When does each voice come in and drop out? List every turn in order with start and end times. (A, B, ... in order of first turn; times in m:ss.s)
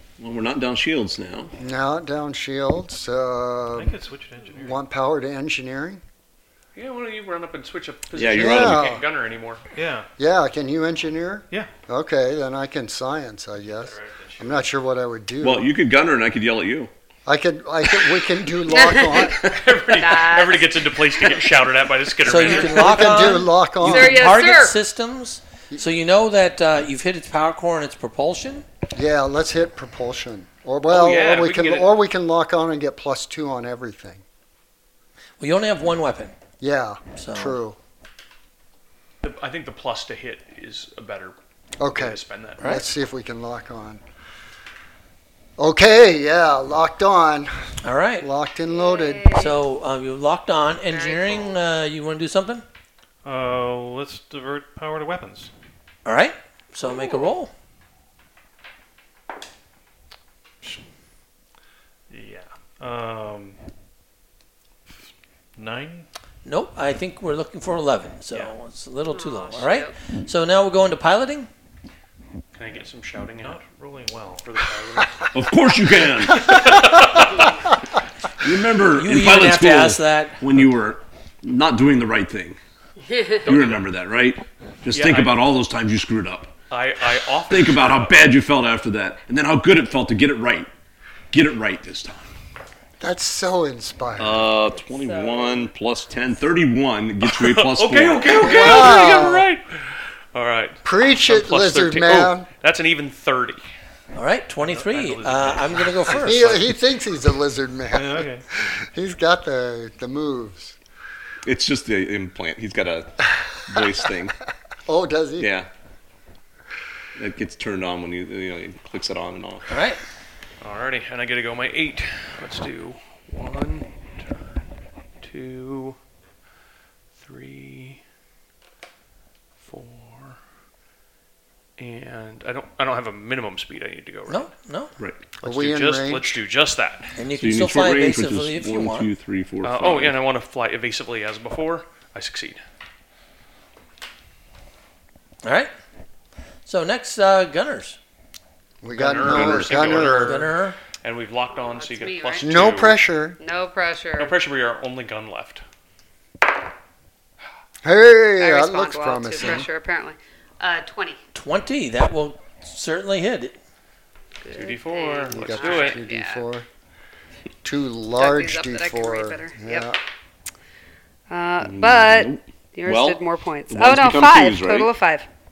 0:00.2-0:01.6 A
0:01.6-0:04.0 B
0:03.7-0:04.8 C
0:04.5-0:06.0 B
0:06.7-0:09.6 D
0:08.1-0:08.8 A
0:08.3-0:09.0 B
0:09.7-0:10.1 C
0:10.2-0:15.7 B
0:13.7-0:14.6 C
0:15.4-0:16.9 A
0:17.2-0:19.4 B
0:18.6-0:20.8 E
0:19.4-0:23.0 D
0:22.2-0:28.6 F
0:22.3-0:24.3 B
0:23.8-0:24.8 E
0:28.9-0:34.2 B
0:30.9-0:31.9 D
0:35.4-0:36.3 F
0:36.6-0:37.8 B
0:37.2-0:37.6 F
0:39.2-0:42.8 D
0:41.8-0:44.0 B
0:42.6-0:42.8 F
0:45.6-0:47.5 B
0:47.8-0:48.3 F
0:48.2-0:49.5 B
0:48.7-0:49.6 E
0:49.3-0:52.6 F
0:50.9-0:51.6 E
0:53.2-0:55.5 C
0:56.0-0:57.5 F
0:56.8-0:57.3 E
1:02.1-1:03.6 C
1:05.6-1:06.1 C
1:06.4-1:11.5 F
1:09.1-1:09.9 E
1:12.5-1:13.6 D
1:13.4-1:14.6 C
1:14.4-1:15.3 D
1:15.3-1:16.9 A
1:16.3-1:17.6 D
1:18.4-1:22.6 A
1:18.9-1:20.5 F
1:23.4-1:23.9 D
1:23.4-1:26.5 A
1:24.9-1:25.4 D
1:26.7-1:28.3 D
1:27.5-1:30.7 A
1:31.3-1:32.3 A
1:33.0-1:34.5 B
1:34.2-1:38.6 A
1:37.2-1:43.6 D
1:38.4-1:39.5 B
1:40.8-1:42.5 B
1:44.1-1:46.7 F
1:44.6-1:46.5 C
1:46.1-1:50.8 B
1:47.9-1:48.5 C
1:51.4-1:54.3 A
1:54.8-1:55.5 B
1:55.4-1:55.7 A
1:57.2-1:59.7 A
1:59.7-2:00.0 F
2:00.6-2:04.6 D
2:05.2-2:06.0 D
2:07.2-2:08.0 D
2:09.6-2:10.4 D
2:11.8-2:14.5 D
2:14.3-2:14.9 F
2:15.4-2:16.4 B
2:15.4-2:17.2 D
2:17.2-2:19.1 F
2:17.4-2:20.2 A
2:19.6-2:22.6 D
2:25.4-2:25.7 F
2:26.6-2:28.0 F
2:28.8-2:30.4 B
2:28.9-2:33.0 D
2:29.7-2:30.8 F
2:31.5-2:32.8 E
2:32.4-2:33.4 B
2:33.4-2:34.4 E
2:34.2-2:35.6 D
2:37.8-2:39.7 B
2:38.4-2:41.2 E
2:41.3-2:43.6 F
2:44.4-2:46.4 E
2:44.5-2:46.0 D
2:45.3-2:46.7 B
2:47.6-2:50.0 B
2:48.2-2:49.9 E
2:51.3-2:55.3 E
2:51.6-2:54.9 A